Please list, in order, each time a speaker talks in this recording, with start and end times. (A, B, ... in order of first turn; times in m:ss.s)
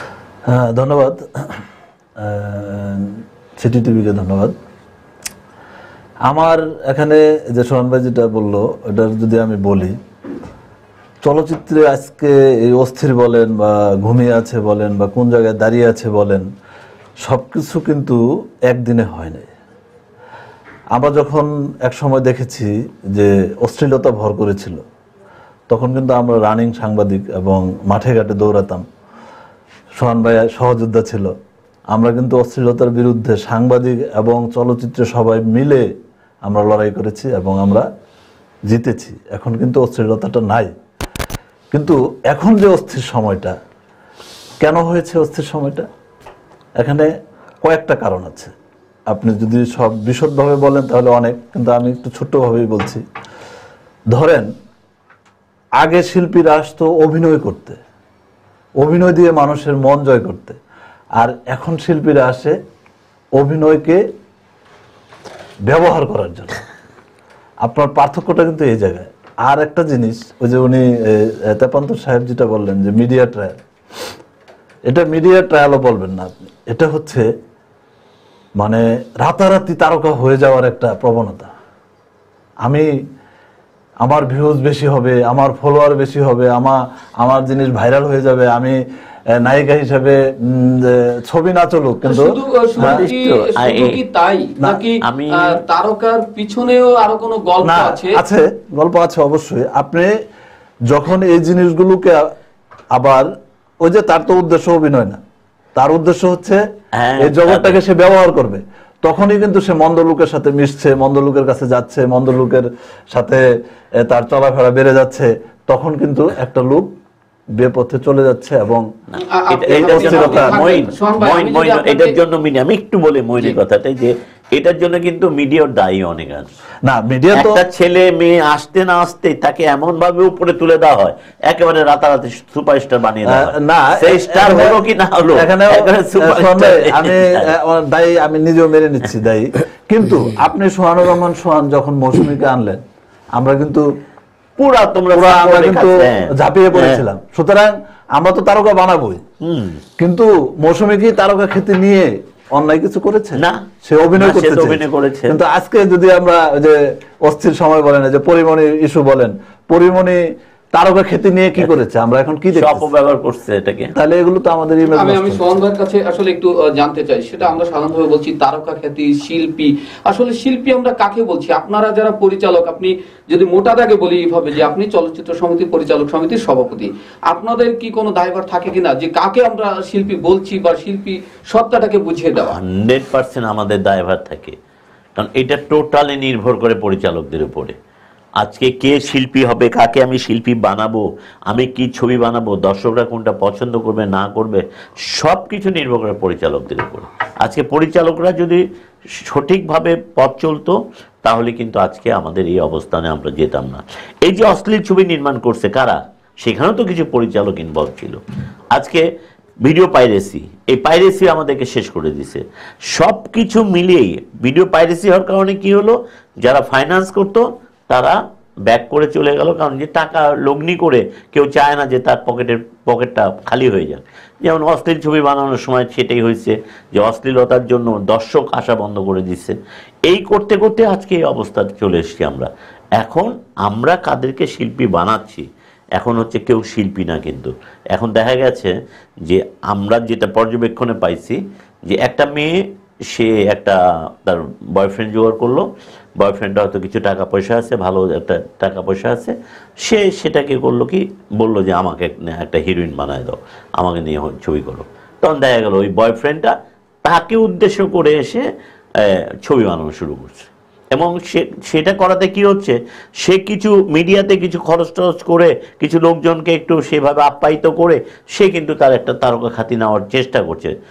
0:00.5-0:01.2 A
0:02.2-0:04.5 A
0:06.3-0:09.9 A
0:11.2-0:16.4 A
0:17.2-0:19.5 A
0:20.9-0:24.8 A
0:25.7-0:28.8 A
0:30.0-0:31.3 A
0:31.9-0:35.8 A
0:36.4-0:37.8 A
0:38.7-0:40.7 A
0:41.7-0:43.5 A
0:44.6-0:45.8 A
0:46.8-0:47.1 A
0:47.6-0:48.5 A
0:49.1-0:53.0 A
0:54.1-0:54.5 A
0:55.8-0:57.8 A
0:58.8-1:00.6 A
1:01.2-1:02.6 A
1:03.4-1:04.0 A
1:05.7-1:06.6 A
1:07.6-1:13.6 A
1:14.9-1:17.3 A
1:18.6-1:21.5 A
1:24.0-1:28.8 A
1:29.3-1:33.0 A
1:32.0-1:38.2 B
1:32.8-1:34.0 C
1:35.0-1:35.6 C
1:37.6-1:40.1 A
1:40.9-1:42.3 A
1:42.9-1:43.3 A
1:43.8-1:45.2 A
1:45.8-1:46.6 A
1:47.0-1:47.8 C
1:47.2-1:53.4 A
1:54.0-1:56.9 A
1:57.6-1:58.8 A
1:59.2-2:02.2 B
1:59.5-2:06.5 C
1:59.7-2:00.6 A
2:06.8-2:07.6 A
2:07.3-2:17.4 C
2:13.2-2:14.8 A
2:15.4-2:22.8 A
2:23.4-2:23.8 A
2:24.6-2:27.0 C
2:25.1-2:29.2 A
2:29.4-2:29.8 C
2:30.0-2:40.2 A
2:33.4-2:33.6 C
2:34.2-2:35.4 C
2:40.7-2:42.9 A
2:42.5-2:43.9 C
2:43.9-2:45.6 A
2:44.9-3:02.6 B
3:02.5-3:04.5 C
3:05.2-3:07.7 C
3:08.4-3:18.6 C
3:19.3-3:28.2 C
3:28.7-3:29.0 C
3:29.6-3:38.2 C
3:38.7-3:49.6 C
3:50.1-3:55.4 C
3:56.0-3:58.7 C
3:59.2-4:02.6 C
4:03.1-4:05.6 C
4:06.2-4:18.4 C
4:19.0-4:30.7 C